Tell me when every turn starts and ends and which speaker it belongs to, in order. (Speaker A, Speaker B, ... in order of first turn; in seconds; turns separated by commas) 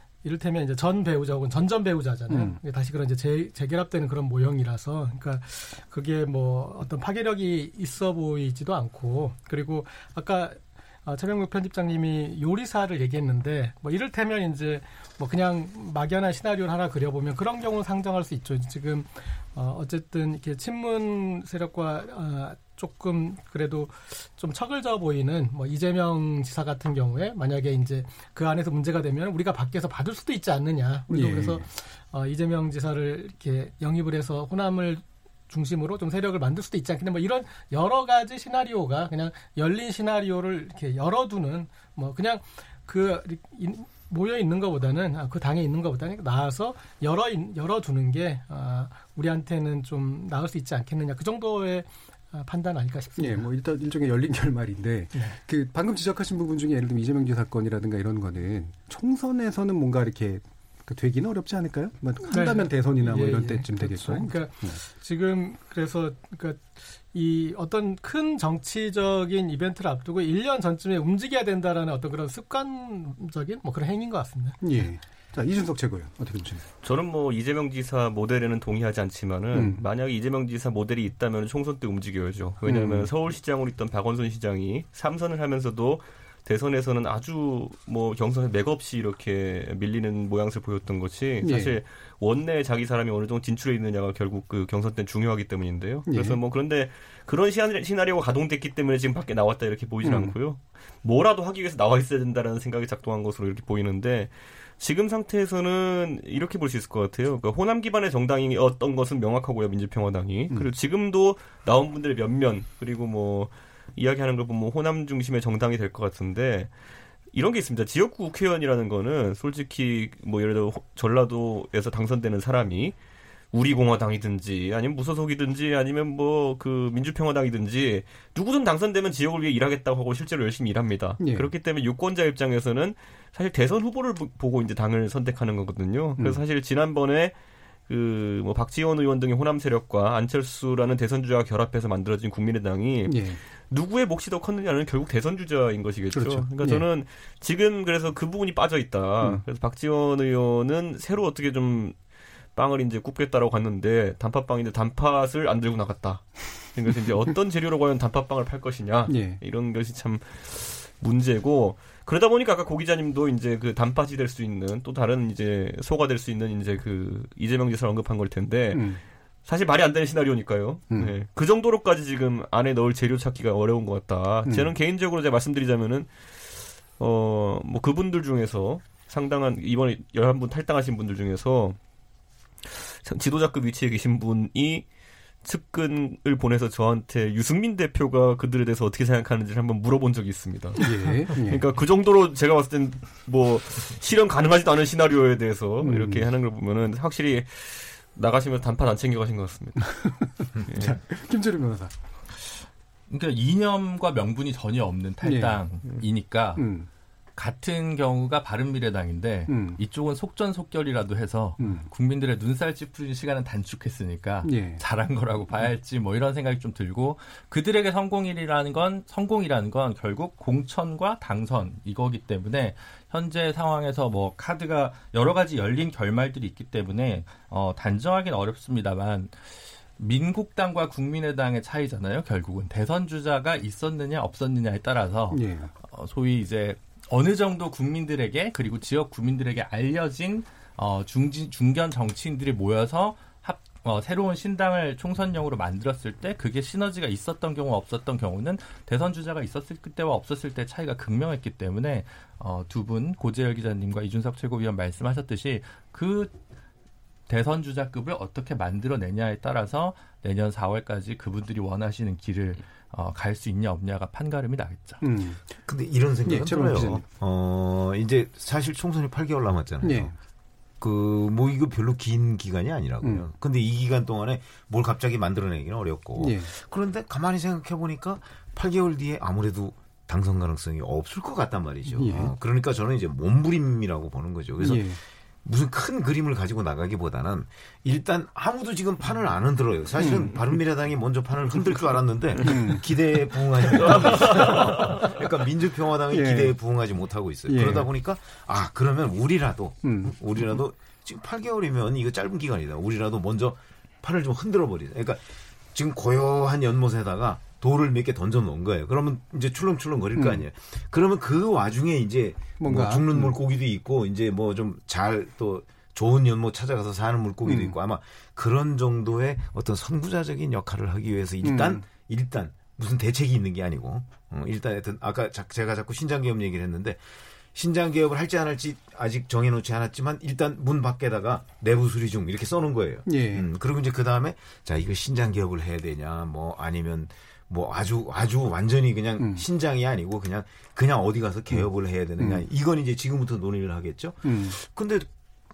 Speaker A: 0.2-53.5, Speaker B: 2.3-2.6, Speaker B: 31.1-31.6, Speaker B: 53.2-64.8, Speaker A: 62.3-74.6, Speaker B: 74.6-76.7, Speaker C: 76.8-116.7, Speaker B: 79.5-79.8, Speaker B: 82.7-83.1, Speaker B: 91.4-91.8, Speaker B: 96.1-96.4, Speaker B: 100.0-100.3, Speaker C: 117.3-123.0, Speaker C: 123.5-137.4, Speaker B: 131.2-131.5, Speaker C: 137.9-152.0, Speaker B: 143.1-143.4, Speaker B: 146.1-146.8, Speaker C: 152.6-181.8, Speaker B: 159.1-159.4, Speaker B: 168.7-169.0, Speaker B: 174.4-174.7, Speaker C: 182.7-184.8, Speaker C: 185.4-201.0, Speaker B: 190.8-191.6, Speaker B: 195.8-196.3, Speaker B: 200.0-201.9, Speaker D: 203.1-206.7, Speaker B: 205.2-205.6, Speaker B: 206.6-206.9, Speaker D: 207.4-229.4, Speaker B: 209.5-209.8, Speaker B: 211.6-211.9, Speaker B: 214.4-214.8, Speaker D: 230.0-256.4, Speaker B: 235.3-235.7, Speaker D: 257.3-265.0, Speaker B: 265.0-265.4, Speaker E: 265.7-270.1, Speaker B: 266.2-267.0, Speaker B: 269.8-270.1, Speaker E: 270.8-345.1, Speaker B: 273.0-273.3, Speaker B: 276.2-276.5, Speaker B: 281.9-282.3, Speaker B: 284.6-285.0, Speaker B: 290.0-290.6, Speaker B: 292.4-294.8, Speaker C: 294.0-294.6, Speaker B: 296.1-296.6, Speaker B: 297.5-297.9, Speaker B: 299.8-300.6, Speaker B: 310.1-310.4, Speaker B: 312.6-313.4, Speaker B: 317.4-317.8, Speaker B: 321.4-321.9, Speaker B: 333.1-333.5, Speaker B: 339.2-339.5, Speaker B: 341.5-342.4, Speaker B: 344.2-344.6